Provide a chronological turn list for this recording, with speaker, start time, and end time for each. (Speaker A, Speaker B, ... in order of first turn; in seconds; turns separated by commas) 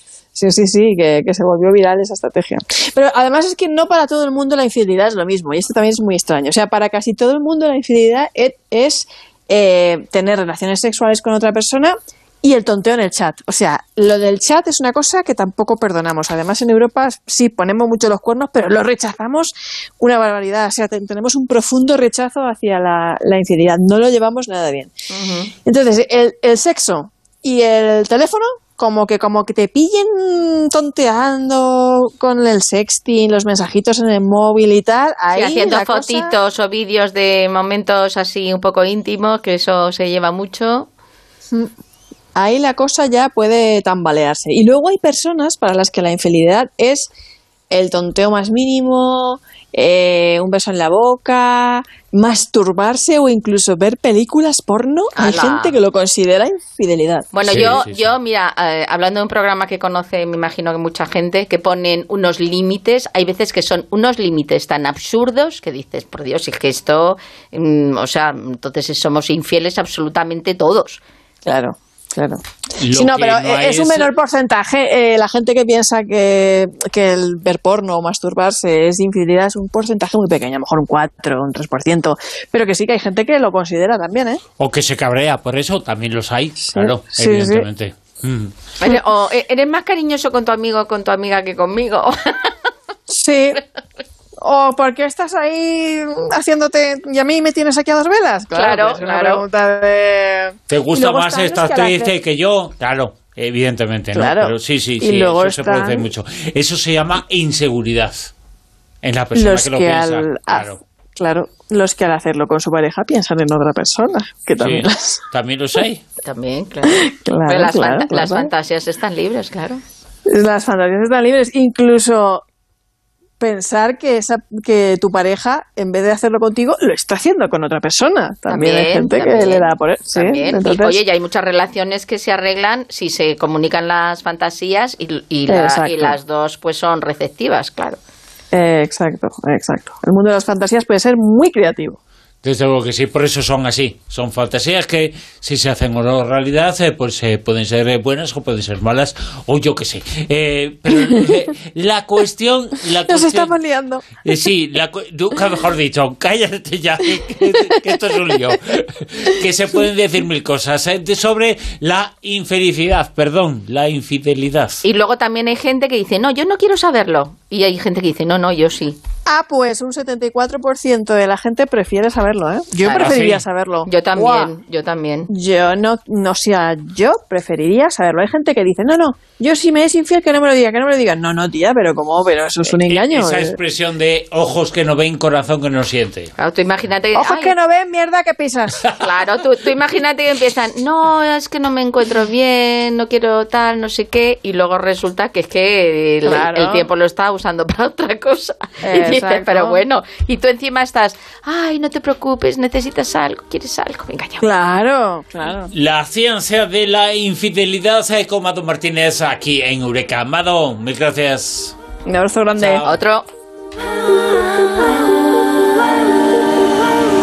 Speaker A: 0.3-24.9, Speaker B: 25.1-25.5, Speaker A: 25.6-36.3, Speaker B: 35.3-40.9, Speaker A: 42.3-47.1, Speaker A: 47.7-57.8, Speaker B: 55.1-55.8, Speaker B: 57.3-71.0, Speaker C: 57.4-58.1, Speaker A: 71.4-84.4, Speaker C: 72.8-74.1, Speaker C: 84.6-88.5, Speaker A: 86.7-87.7, Speaker B: 88.8-92.5, Speaker A: 93.1-93.6, Speaker A: 94.4-102.1, Speaker B: 98.5-99.4, Speaker C: 100.7-108.3, Speaker A: 104.1-106.1, Speaker C: 109.0-110.8, Speaker A: 109.3-115.2, Speaker C: 114.6-116.0, Speaker B: 116.2-119.8, Speaker A: 116.9-118.5, Speaker A: 120.3-122.4, Speaker A: 123.4-131.0, Speaker B: 128.5-138.0, Speaker A: 135.5-136.2, Speaker A: 138.5-142.0, Speaker C: 142.4-153.5, Speaker A: 153.1-154.3, Speaker C: 154.2-164.8, Speaker A: 158.1-158.5, Speaker B: 164.8-169.0, Speaker A: 169.2-174.5, Speaker B: 172.8-173.1, Speaker C: 172.9-173.4, Speaker B: 173.8-175.3, Speaker A: 175.3-183.6, Speaker C: 182.6-186.3, Speaker B: 186.4-187.5, Speaker A: 187.1-188.9, Speaker B: 189.0-204.5, Speaker A: 196.2-196.9, Speaker A: 198.8-199.8, Speaker A: 204.4-205.7, Speaker C: 205.7-211.7, Speaker A: 212.1-212.8, Speaker C: 212.5-213.0, Speaker B: 212.8-213.3